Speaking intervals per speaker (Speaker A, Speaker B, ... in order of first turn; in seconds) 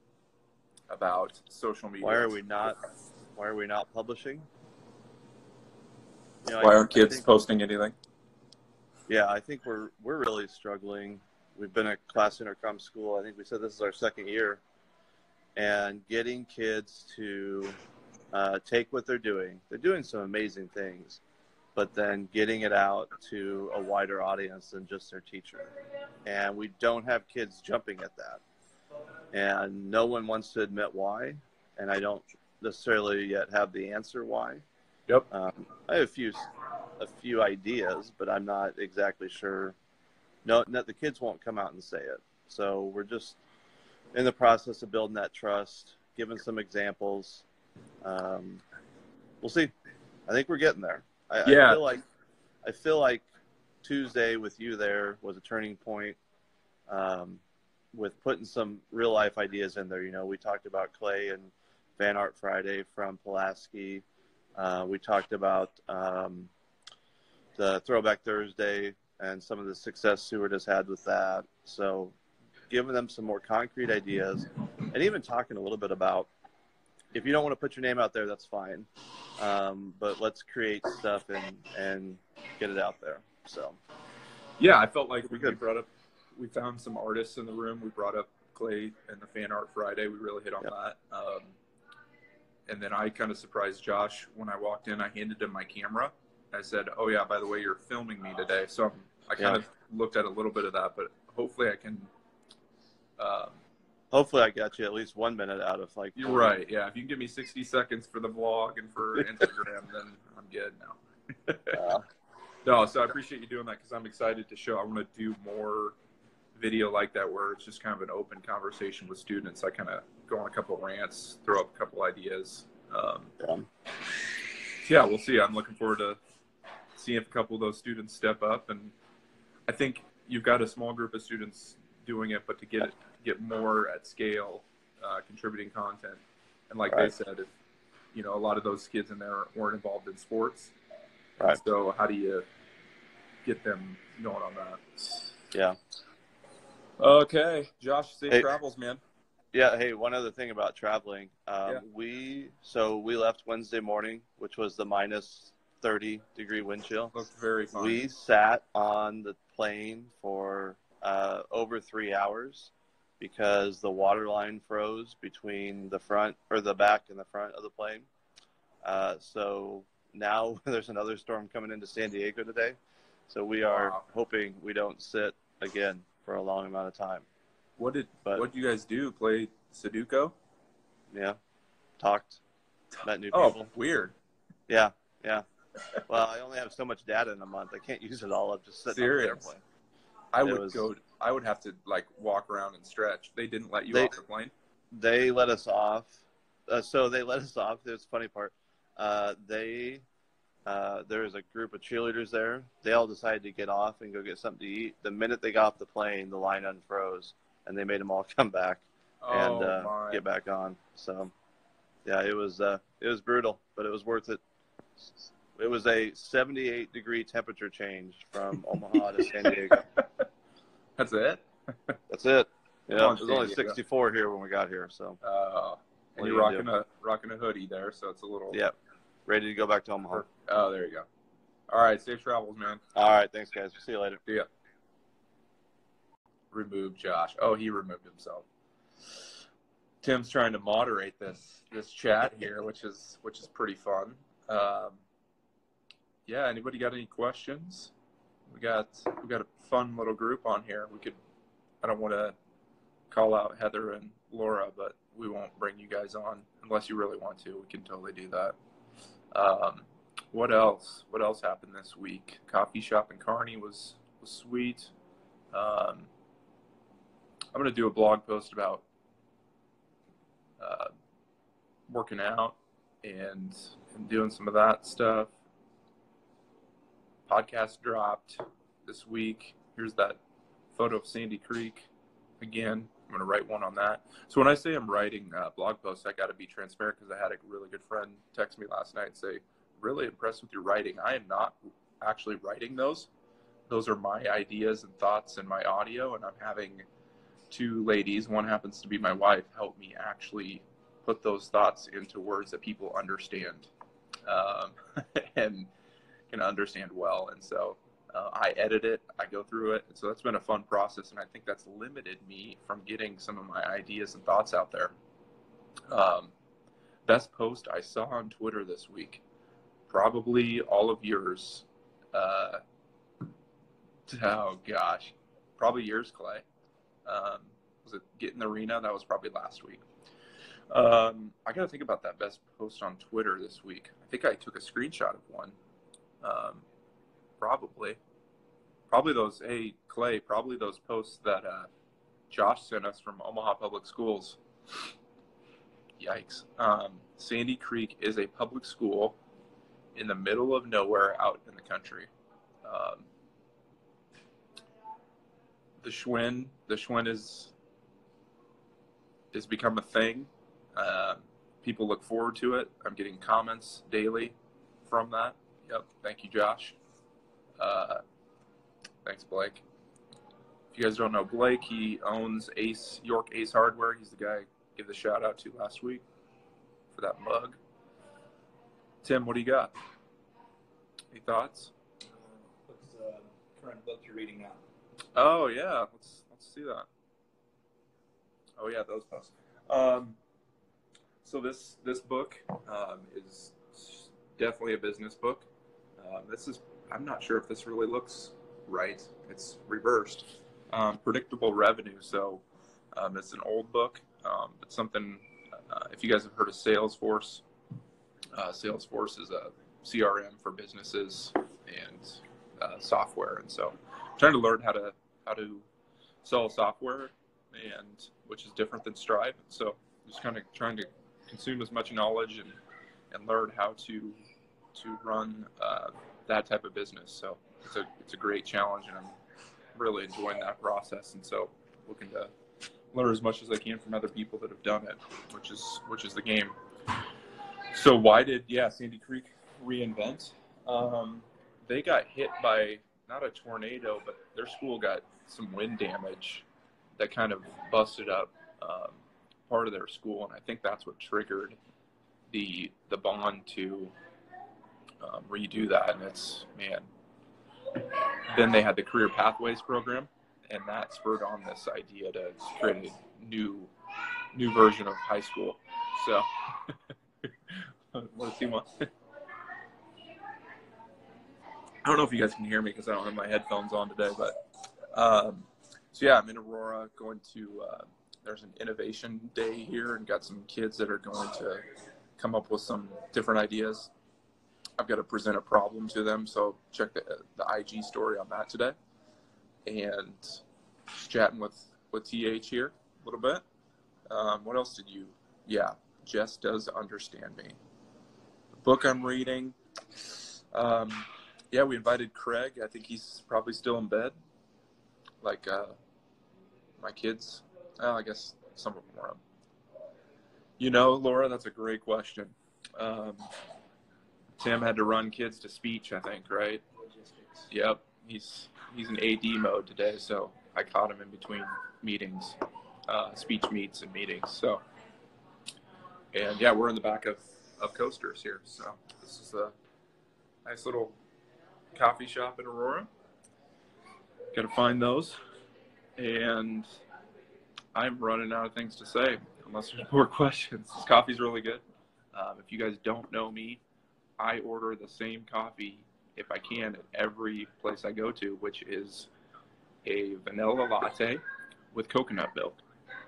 Speaker A: 0.9-2.7, 6.6-7.9, 51.4-51.8, 84.6-91.6, 92.7-102.1, 103.2-103.6, 106.2-111.8, 112.6-116.0, 116.5-123.3, 124.8-126.2, 126.9-128.9, 129.7-137.5, 138.1-140.7, 141.5-142.4, 143.4-144.8, 147.0-149.0, 157.1-158.0, 173.6-174.1, 177.8-180.3, 182.9-184.1, 188.9-189.6, 190.3-194.5, 209.2-210.2, 219.2-220.3, 221.0-222.0, 222.9-223.8, 225.2-228.6, 230.1-231.1, 231.7-232.8, 236.5-238.5, 240.0-245.0, 246.2-247.9, 248.5-251.2, 251.8-252.3, 253.1-258.6, 259.3-264.9, 265.5-266.1, 267.5-268.8, 270.6-270.9, 271.9-275.4, 277.2-280.2, 280.7-281.9, 282.4-293.1, 293.7-296.9, 297.5-303.7, 304.3-305.7, 306.3-314.9, 315.9-316.3, 317.1-319.2, 319.9-322.6, 324.1-326.4, 327.1-329.8, 330.7-335.6, 336.2-336.6, 337.4-338.0, 338.9-341.7, 342.3-344.4, 346.0-349.2, 349.9-352.1, 352.6-353.1, 355.8-357.5, 359.3-366.8, 367.6-368.0, 369.0-369.6, 370.7-376.0, 376.9-377.6, 379.0-379.7, 381.1-381.7, 385.1-386.9, 388.6-390.2, 391.2-395.5, 396.0-407.4, 408.3-415.6, 416.2-422.6, 423.1-424.2, 424.7-429.1, 429.7-432.3, 432.9-436.5, 437.7-446.4, 447.0-451.6, 452.3-453.9, 455.0-456.9, 458.3-463.7, 464.3-468.9, 471.8-474.4, 474.9-481.6, 482.2-483.9, 484.8-488.7, 489.6-493.4, 494.1-497.6, 498.5-504.1, 505.2-505.8, 506.8-509.2, 510.6-513.3, 514.4-516.6, 517.5-524.6, 526.1-529.5, 530.4-531.0, 531.7-532.9, 534.3-535.2, 536.0-536.7, 537.7-543.6, 544.2-549.1, 549.8-552.6
Speaker B: 2.0-2.8, 3.4-4.5, 6.4-7.3, 9.1-14.6, 15.6-17.8, 18.3-21.2, 21.7-25.7, 26.2-28.4, 29.3-34.6, 35.3-39.7, 40.4-43.4, 44.1-47.4, 48.0-48.6, 49.4-49.7, 50.3-52.0, 52.6-53.2, 53.8-56.2, 56.9-57.4, 57.9-64.0, 64.5-66.5, 67.5-72.1, 72.7-76.3, 77.1-83.8, 85.2-85.6, 104.1-106.5, 111.7-112.0, 123.4-123.6, 149.5-157.2, 157.7-168.1, 168.8-172.8, 173.3-177.2, 181.1-181.4, 182.0-182.4, 183.0-183.7, 184.7-185.4, 186.1-189.6, 190.4-190.8, 194.9-200.0, 200.7-211.3, 212.0-214.4, 215.0-219.8, 222.1-225.2, 226.2-226.7, 229.3-230.2, 232.9-234.2
Speaker C: 382.1-384.6, 516.8-517.5